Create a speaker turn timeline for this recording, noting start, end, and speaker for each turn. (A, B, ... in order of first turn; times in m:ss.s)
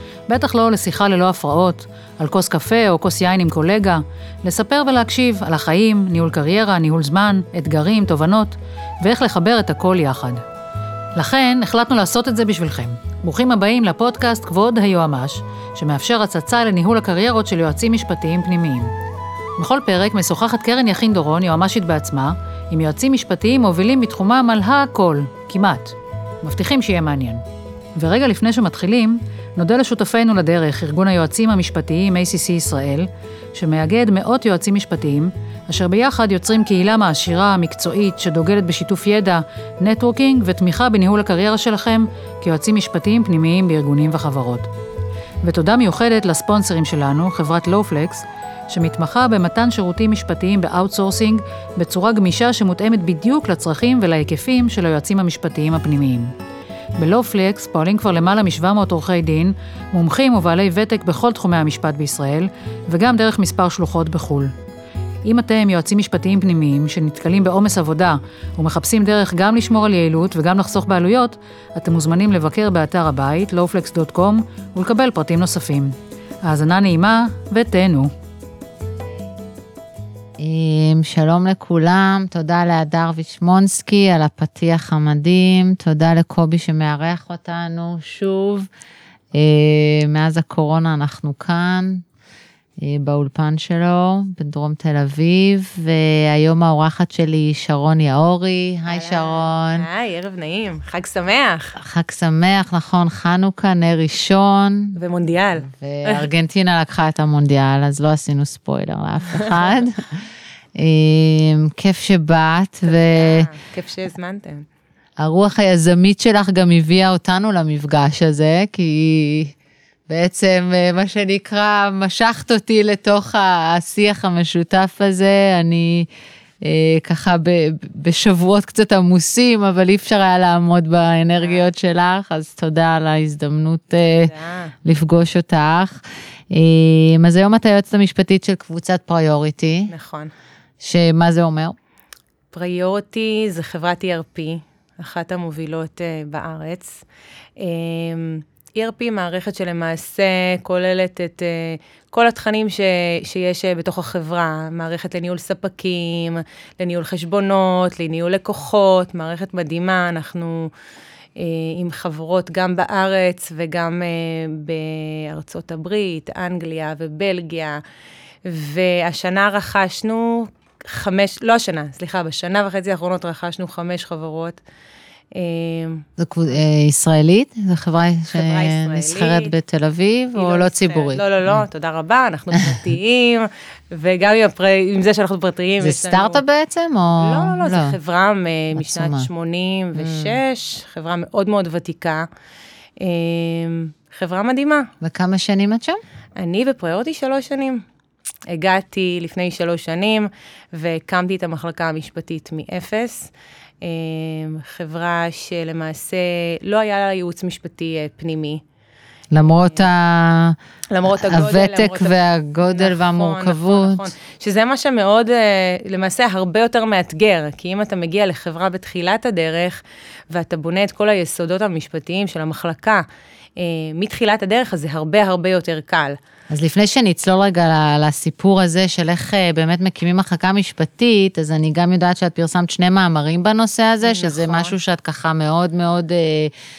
0:00.3-0:10.4 A
0:11.2-0:18.9 A
0:19.6-0:27.4 A
0:28.0-0:44.7 A
0:45.4-0:56.4 A
0:57.0-1:04.5 A
1:05.2-1:18.1 A
1:20.4-1:28.7 B
1:29.3-1:32.0 B
1:32.8-1:39.9 B
1:38.9-1:41.8 C
1:41.8-1:45.0 B
1:45.0-1:46.3 C
1:45.6-1:50.2 B
1:49.4-1:49.7 C
1:50.8-1:53.5 B
1:52.9-1:54.6 C
1:55.2-1:59.6 B
2:00.1-2:06.1 B
2:06.6-2:14.3 B
2:11.4-2:11.7 C
2:14.0-2:14.7 C
2:14.8-2:19.9 B
2:19.9-2:20.3 C
2:20.8-2:21.8 B
2:22.5-2:27.0 C
2:27.6-2:40.7 C
2:41.4-2:47.8 C
2:48.4-2:54.6 C
2:55.3-2:56.1 C
2:56.2-3:01.6 B
2:58.3-2:59.5 C
3:00.4-3:06.4 C
3:05.8-3:08.0 B
3:07.2-3:12.3 C
3:08.8-3:09.3 B
3:10.0-3:10.4 B
3:13.0-3:14.9 C
3:15.0-3:16.0 B
3:16.4-3:17.8 C
3:18.5-3:28.6 C
3:29.3-3:30.6 B
3:30.9-3:43.0 C
3:31.1-3:34.1 B
3:43.6-3:46.2 C
3:46.5-3:56.5 B
3:54.0-3:54.8 C